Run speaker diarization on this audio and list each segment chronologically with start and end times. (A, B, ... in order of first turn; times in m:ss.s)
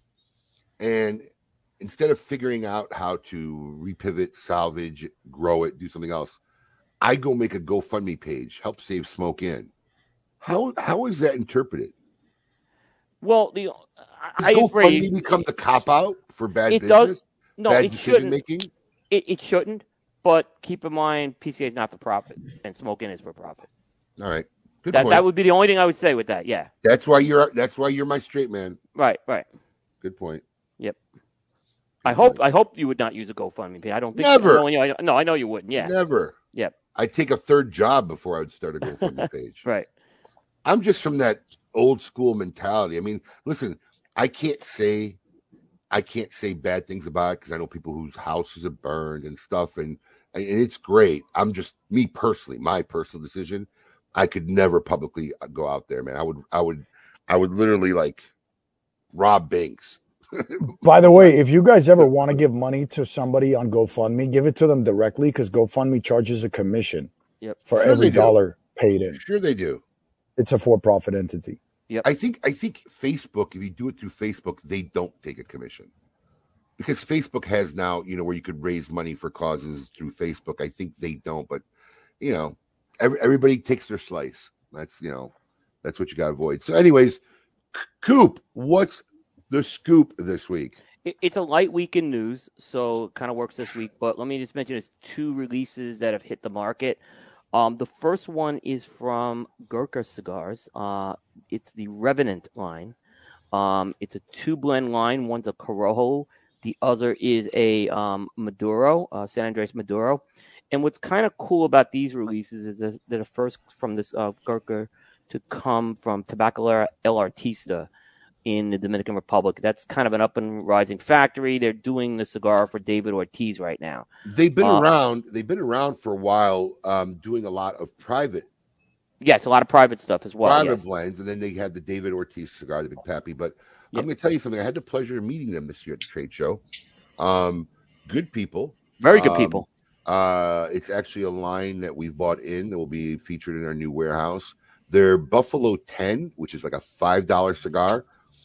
0:00.8-0:01.3 A
0:01.8-0:06.4 A
0:07.0-0:09.7 A
0:10.4-0:11.9 A
0:13.2-0:15.1 B
0:14.4-0:18.7 A
0:16.7-0:18.4 B
0:19.1-0:23.7 B
0:24.2-0:25.3 A
0:24.9-0:26.7 B
0:26.8-0:28.8 A
0:29.0-0:29.5 B
0:30.0-0:30.4 A
0:32.0-0:32.4 A
0:32.0-0:35.9 B
0:34.2-0:34.7 A
0:35.8-0:36.4 A
0:37.0-0:39.7 A
0:40.6-0:45.2 A
0:45.9-0:58.3 A
0:59.1-1:01.3 A
1:00.8-1:07.1 C
1:02.0-1:02.4 A
1:07.7-1:09.2 C
1:07.8-1:08.4 A
1:09.1-1:09.8 A
1:10.4-1:11.6 C
1:12.0-1:15.9 A
1:16.8-1:21.6 A
1:22.2-1:27.2 A
1:27.7-1:30.8 A
1:31.0-1:37.0 B
1:37.5-1:43.0 B
1:43.5-1:57.9 B
1:58.4-2:04.1 B
2:04.3-2:08.5 A
2:04.6-2:04.9 B
2:09.2-2:10.8 B
2:10.4-2:16.6 A
2:17.2-2:28.0 A
2:19.0-2:19.7 B